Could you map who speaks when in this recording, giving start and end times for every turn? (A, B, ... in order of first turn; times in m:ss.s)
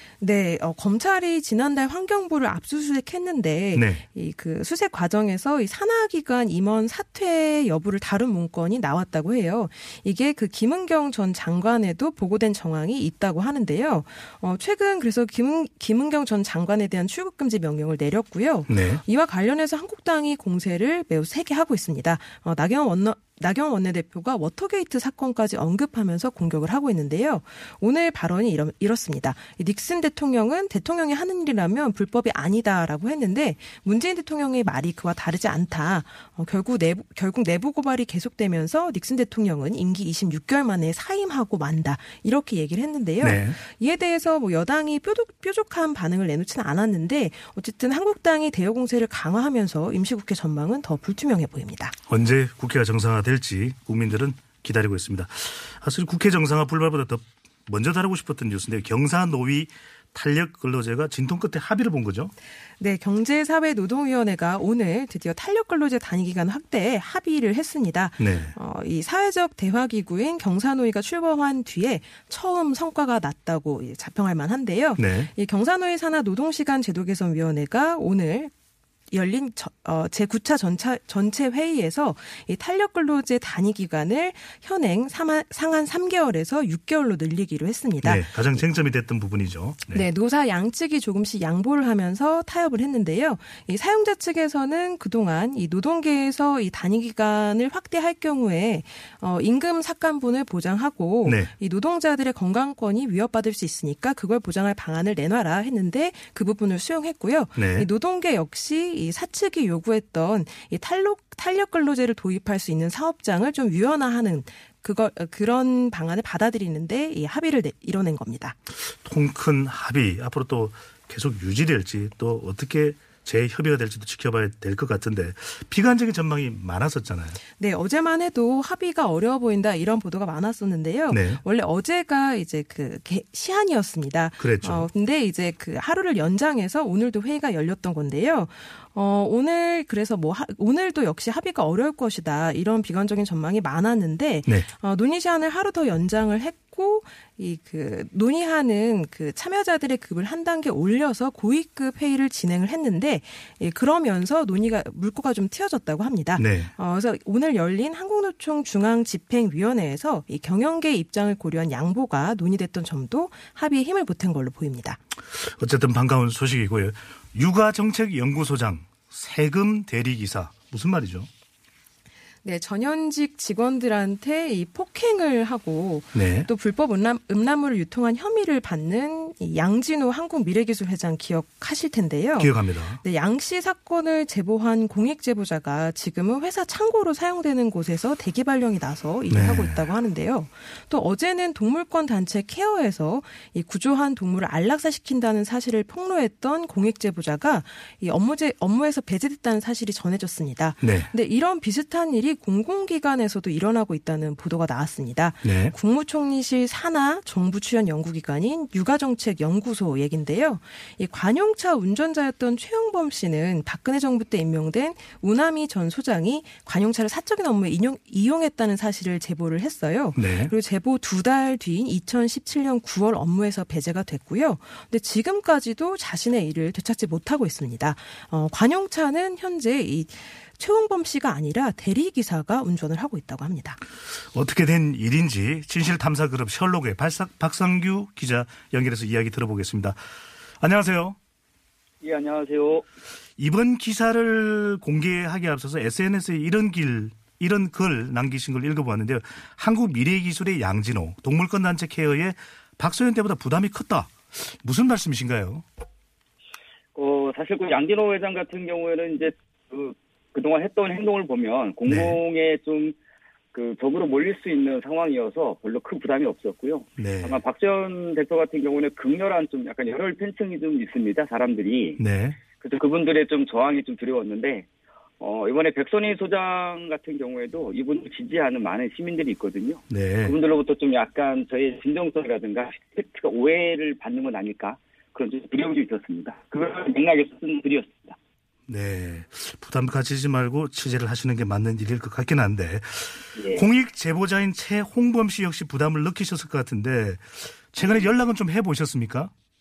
0:00.2-0:52.0 A
0:03.7-0:04.0 B
0:18.7-0:19.0 B
0:43.2-0:43.6 B
0:52.1-1:02.3 B
1:02.8-1:18.5 A
1:08.2-1:08.6 B
1:15.0-1:15.3 B
1:19.1-1:28.3 A
1:28.0-1:30.1 B
1:29.9-1:58.6 A
1:41.2-1:41.5 B
1:47.6-1:47.9 B
1:58.9-2:07.4 B
2:07.6-2:45.0 A
2:11.1-2:11.4 B
2:14.4-2:14.9 B
2:36.4-2:36.7 B
2:45.3-2:51.3 B
2:52.4-3:53.8 A
2:56.1-2:56.5 B
3:02.4-3:03.0 B
3:09.3-3:09.8 B
3:20.8-3:21.1 B
3:25.4-3:25.7 B
3:40.2-3:40.5 B
3:54.1-4:00.0 B
4:00.6-4:01.2 B
4:02.0-4:02.9 C
4:03.4-4:15.7 B
4:17.0-4:23.0 C
4:21.8-4:22.2 B
4:23.5-4:32.0 C
4:27.0-4:27.4 B
4:32.0-4:32.4 B
4:32.6-4:34.7 C
4:35.2-4:48.2 C
4:39.9-4:40.4 B
4:48.7-4:59.3 B
4:53.4-4:53.7 C